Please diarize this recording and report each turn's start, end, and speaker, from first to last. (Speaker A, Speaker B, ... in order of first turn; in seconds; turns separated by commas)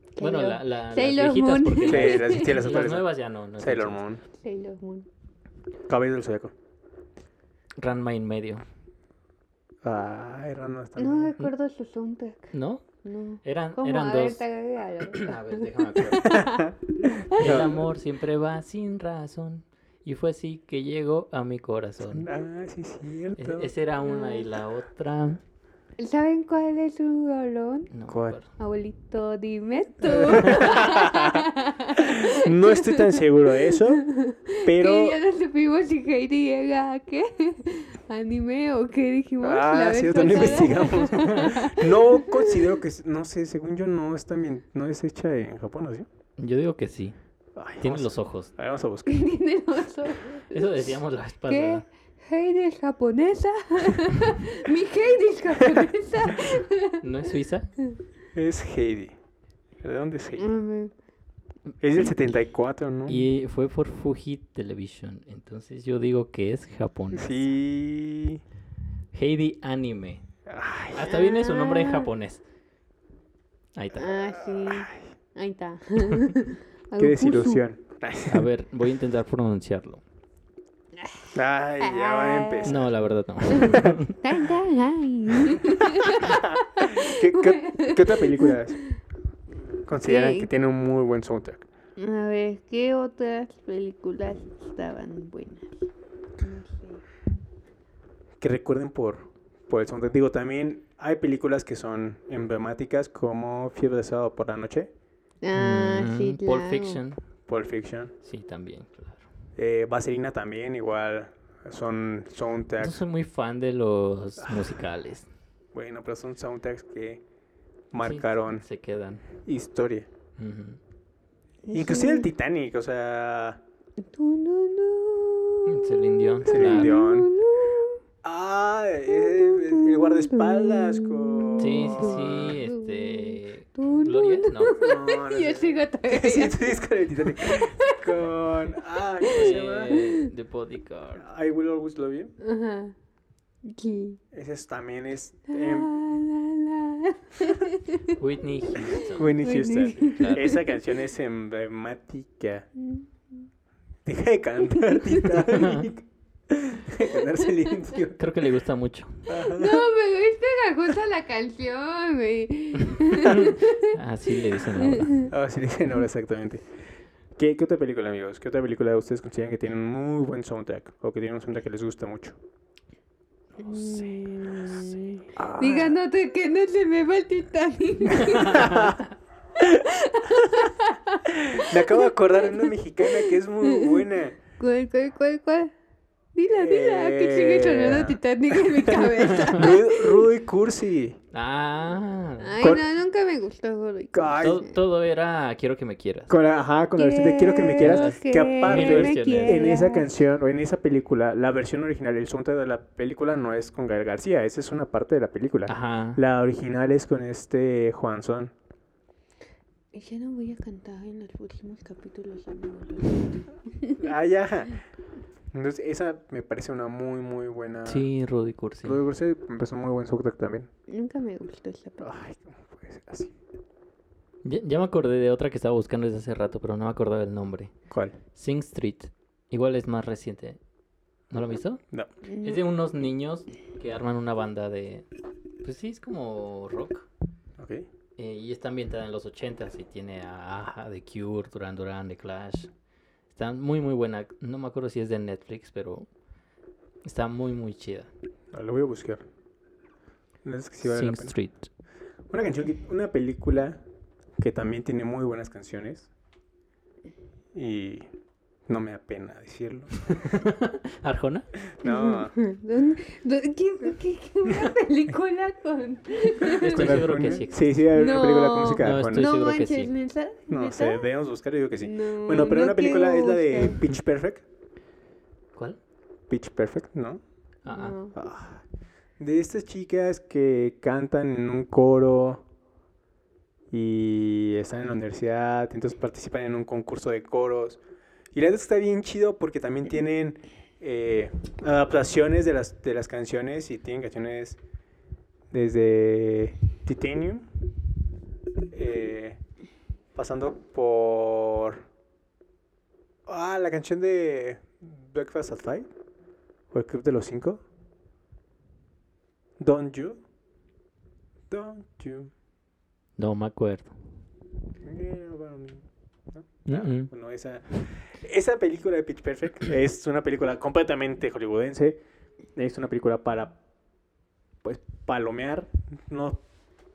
Speaker A: 0.2-2.6, Speaker B: 0.2-4.0, Speaker C: 1.9-4.2, Speaker A: 4.4-5.1, Speaker C: 5.9-6.5, Speaker B: 7.8-8.6, Speaker C: 9.8-11.3, Speaker A: 11.0-12.5, Speaker B: 12.5-12.8, Speaker A: 13.0-16.7, Speaker B: 13.4-14.4, Speaker B: 15.1-16.4, Speaker C: 16.2-16.7, Speaker C: 17.3-17.9, Speaker B: 17.3-22.3, Speaker C: 22.1-23.7, Speaker B: 23.4-25.4, Speaker A: 24.0-24.5, Speaker A: 26.0-27.9, Speaker B: 27.9-28.5, Speaker C: 28.1-28.4, Speaker A: 28.6-42.6, Speaker C: 30.1-31.5, Speaker B: 30.4-30.7, Speaker C: 32.0-34.0, Speaker C: 34.6-35.2, Speaker C: 39.4-46.1, Speaker B: 41.2-41.5, Speaker B: 46.4-47.2, Speaker C: 47.6-49.2, Speaker B: 47.8-48.5, Speaker A: 49.1-51.0, Speaker B: 50.5-51.8, Speaker A: 51.5-57.0, Speaker C: 55.6-55.9, Speaker B: 57.0-57.7, Speaker C: 58.3-59.2, Speaker C: 59.8-60.5, Speaker A: 60.4-60.9, Speaker C: 61.8-63.3, Speaker B: 63.1-67.5, Speaker C: 67.1-68.4, Speaker B: 69.1-70.2, Speaker C: 70.5-71.1, Speaker B: 71.0-72.4, Speaker A: 71.0-72.1, Speaker B: 73.8-74.1, Speaker A: 74.0-77.6, Speaker C: 74.6-75.0, Speaker C: 77.0-78.5, Speaker B: 78.3-80.0, Speaker C: 81.3-82.9, Speaker A: 81.8-82.8, Speaker B: 82.7-84.2, Speaker A: 83.5-88.6, Speaker C: 83.7-84.0, Speaker C: 85.5-88.8, Speaker C: 89.9-91.7, Speaker A: 90.0-90.5, Speaker A: 92.0-95.9, Speaker A: 96.4-97.0, Speaker C: 98.4-104.9, Speaker A: 105.4-107.0, Speaker B: 105.5-107.2, Speaker C: 107.5-108.1, Speaker B: 108.2-109.3, Speaker C: 109.6-113.0, Speaker B: 112.8-115.3, Speaker C: 114.4-114.8, Speaker C: 115.7-117.2, Speaker C: 117.9-118.6, Speaker B: 118.0-119.2, Speaker C: 119.4-120.1, Speaker B: 120.4-120.8, Speaker A: 121.7-122.3, Speaker C: 121.7-123.6, Speaker A: 124.0-128.0, Speaker B: 125.7-127.0, Speaker C: 126.5-127.3, Speaker C: 128.2-132.6, Speaker A: 129.1-136.7, Speaker B: 131.6-134.8, Speaker C: 134.7-140.0, Speaker A: 137.3-138.2, Speaker A: 139.2-140.3, Speaker B: 139.3-141.3, Speaker C: 141.2-142.3, Speaker A: 142.4-142.9, Speaker A: 143.7-144.2, Speaker C: 144.3-145.9, Speaker A: 145.5-148.2, Speaker B: 148.2-149.4, Speaker A: 149.0-150.6, Speaker C: 149.1-152.7, Speaker B: 150.0-150.6, Speaker A: 152.8-153.1, Speaker C: 154.1-158.2, Speaker A: 154.7-155.5, Speaker B: 155.6-155.9, Speaker B: 158.2-159.2, Speaker C: 159.3-159.9, Speaker A: 159.4-164.0, Speaker B: 163.1-165.2, Speaker A: 164.5-165.3, Speaker C: 165.3-166.7, Speaker C: 167.4-172.4, Speaker A: 173.6-178.9, Speaker C: 175.4-175.9, Speaker C: 178.2-179.0, Speaker B: 178.6-178.9, Speaker A: 179.7-184.0, Speaker C: 181.3-184.4, Speaker A: 184.6-185.7, Speaker A: 186.3-190.3, Speaker C: 186.5-191.2, Speaker B: 189.4-189.7, Speaker B: 191.3-192.6, Speaker A: 192.4-194.8, Speaker C: 194.1-194.6, Speaker B: 194.4-196.3, Speaker C: 196.3-208.5, Speaker A: 197.0-200.1, Speaker B: 197.8-199.7, Speaker B: 205.7-206.2, Speaker A: 209.9-214.0, Speaker C: 214.0-214.8, Speaker C: 215.5-218.1, Speaker B: 217.9-219.0, Speaker C: 218.8-220.7, Speaker A: 220.9-222.1, Speaker C: 222.0-223.3, Speaker B: 224.4-227.7, Speaker C: 227.9-228.2, Speaker B: 228.3-230.6, Speaker B: 231.3-231.8, Speaker A: 232.3-232.6, Speaker B: 232.4-235.1, Speaker B: 235.6-237.1, Speaker C: 237.6-237.9, Speaker B: 238.2-242.7, Speaker B: 243.3-246.1, Speaker B: 247.0-248.1, Speaker C: 248.5-249.2, Speaker C: 250.4-251.3, Speaker B: 250.8-251.7, Speaker C: 252.3-253.8, Speaker C: 254.4-256.1, Speaker C: 257.5-258.1, Speaker C: 258.7-260.3, Speaker B: 260.1-261.5, Speaker C: 261.8-262.3, Speaker A: 261.8-271.1, Speaker B: 266.4-267.6, Speaker C: 266.5-269.3, Speaker B: 268.8-269.9, Speaker C: 270.5-274.4, Speaker A: 271.8-273.8, Speaker C: 276.3-277.2, Speaker B: 277.6-277.9, Speaker A: 277.7-278.2, Speaker C: 278.2-278.6, Speaker C: 279.2-282.5, Speaker C: 283.7-287.8, Speaker C: 288.3-294.6, Speaker C: 295.5-297.5, Speaker C: 298.7-299.4, Speaker C: 300.1-301.9, Speaker C: 303.3-305.9, Speaker C: 306.7-307.6, Speaker C: 309.6-310.2, Speaker C: 311.5-312.3, Speaker B: 313.2-313.9, Speaker C: 314.8-322.0, Speaker B: 316.7-317.1, Speaker C: 322.6-323.6, Speaker C: 324.6-326.4